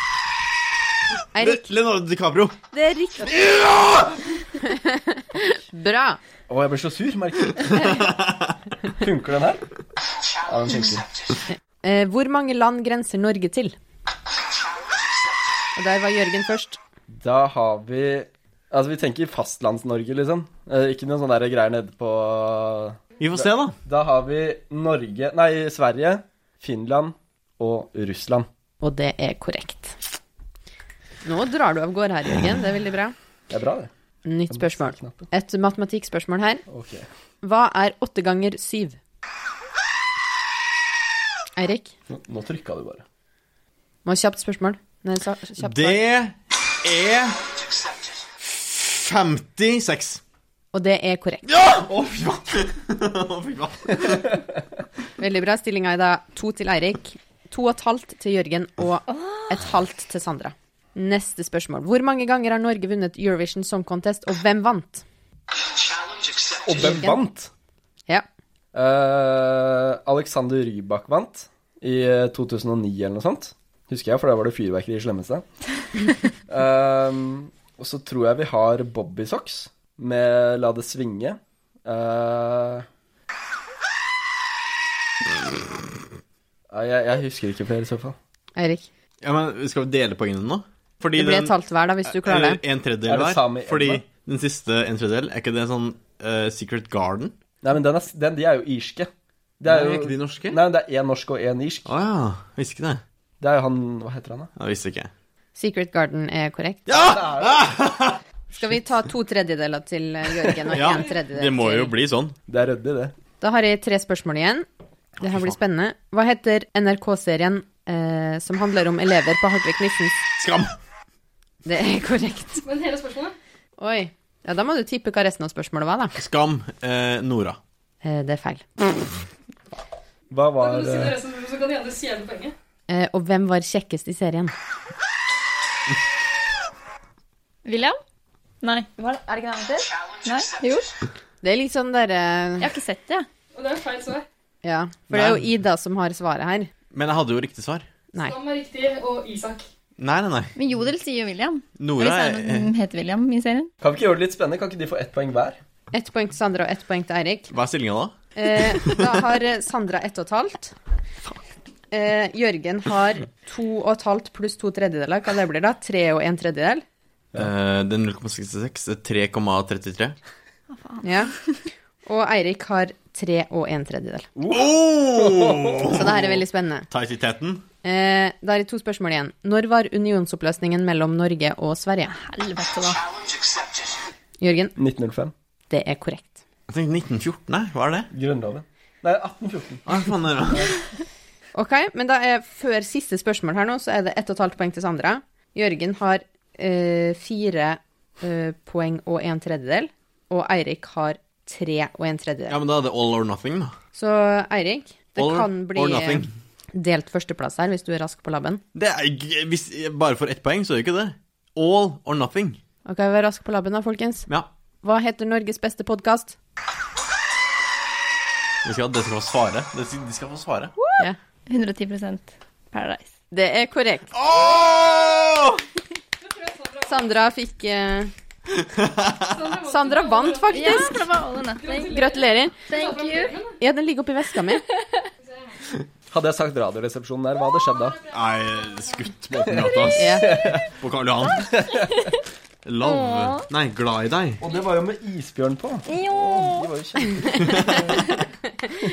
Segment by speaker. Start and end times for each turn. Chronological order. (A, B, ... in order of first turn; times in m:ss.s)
0:01.3-0:01.6 A
0:01.4-0:02.6 B
0:02.7-0:03.4 A
0:03.2-0:04.2 B
0:04.6-0:06.2 A
0:06.5-0:08.0 C
0:08.0-0:08.4 B
0:09.0-0:09.6 C
0:10.5-0:11.1 C
0:11.5-0:13.8 A
0:15.8-0:16.8 A
0:17.1-0:28.5 C
0:23.2-0:23.8 B
0:28.8-0:30.0 A
0:31.2-0:33.1 A
0:33.5-0:33.9 C
0:34.2-0:36.6 A
0:34.5-0:35.2 C
0:36.7-0:37.1 C
0:37.4-0:39.0 A
0:41.6-0:41.9 A
0:42.1-0:43.0 C
0:44.0-0:46.0 A
0:45.6-0:47.4 B
0:48.4-0:50.2 B
0:50.7-0:51.4 A
0:51.4-0:54.3 B
0:55.2-1:05.0 A
0:59.1-0:59.4 D
1:06.6-1:07.5 C
1:06.7-1:07.2 A
1:08.7-1:15.4 C
1:16.5-1:22.8 C
1:26.7-1:28.2 C
1:28.6-1:28.9 A
1:29.2-1:37.3 B
1:31.1-1:32.6 A
1:33.0-1:34.0 C
1:37.6-1:39.1 C
1:39.6-1:41.9 C
1:39.6-1:40.6 B
1:41.8-1:43.0 B
1:43.4-1:44.5 C
1:44.6-1:45.1 B
1:45.5-1:47.2 A
1:46.9-1:48.2 B
1:47.0-1:47.6 C
1:48.5-1:51.9 A
1:50.7-1:52.4 B
1:52.5-1:53.1 C
1:53.4-1:54.6 A
1:55.2-2:00.1 A
1:55.2-1:55.6 B
2:00.4-2:00.7 B
2:01.6-2:02.6 A
2:02.6-2:03.3 E
2:03.8-2:06.1 A
2:06.2-2:07.6 B
2:08.0-2:08.6 A
2:10.3-2:11.2 C
2:10.6-2:12.5 E
2:12.9-2:14.5 A
2:17.6-2:18.0 D
2:18.6-2:20.9 D
2:21.4-2:22.7 A
2:22.6-2:23.3 D
2:23.5-2:24.2 E
2:24.6-2:26.7 A
2:25.1-2:25.5 B
2:26.9-2:27.8 B
2:28.2-2:29.6 E
2:30.0-2:30.5 B
2:30.6-2:33.7 D
2:31.8-2:32.7 B
2:33.8-2:35.6 C
2:35.9-2:37.5 A
2:37.5-2:38.2 B
2:38.3-2:40.8 A
2:38.7-2:39.1 B
2:41.9-2:46.8 A
2:47.4-2:50.2 B
2:50.7-2:51.3 D
2:51.0-2:51.3 A
2:52.0-2:54.3 A
2:54.4-2:55.8 C
2:54.5-2:56.3 B
2:55.9-2:56.9 A
2:56.9-2:57.6 B
2:57.8-3:02.1 A
3:02.1-3:03.0 D
3:04.4-3:04.7 A
3:04.8-3:05.3 C
3:05.7-3:06.4 A
3:06.7-3:08.1 B
3:08.1-3:09.8 C
3:09.8-3:10.7 B
3:11.5-3:22.6 A
3:22.5-3:23.7 B
3:23.9-3:28.6 A
3:25.2-3:26.3 B
3:28.7-3:32.6 B
3:32.8-3:34.3 A
3:34.8-3:36.4 A
3:38.6-3:40.7 B
3:40.8-3:43.1 D
3:43.3-3:44.1 A
3:44.1-3:45.6 B
3:46.2-3:47.0 E
3:46.8-3:48.1 A
3:48.6-3:49.3 B
3:49.3-3:50.9 E
3:49.7-3:51.0 A
3:50.5-3:52.0 D
3:51.5-3:53.6 E
3:51.9-3:52.6 A
3:52.7-3:53.3 D
3:53.6-3:54.6 A
3:55.3-3:55.5 E
3:56.1-3:58.0 C
3:58.1-4:01.6 B
3:59.9-4:00.5 A
4:00.2-4:00.6 C
4:02.6-4:04.4 B
4:02.8-4:03.4 D
4:04.4-4:07.8 C
4:05.8-4:06.7 D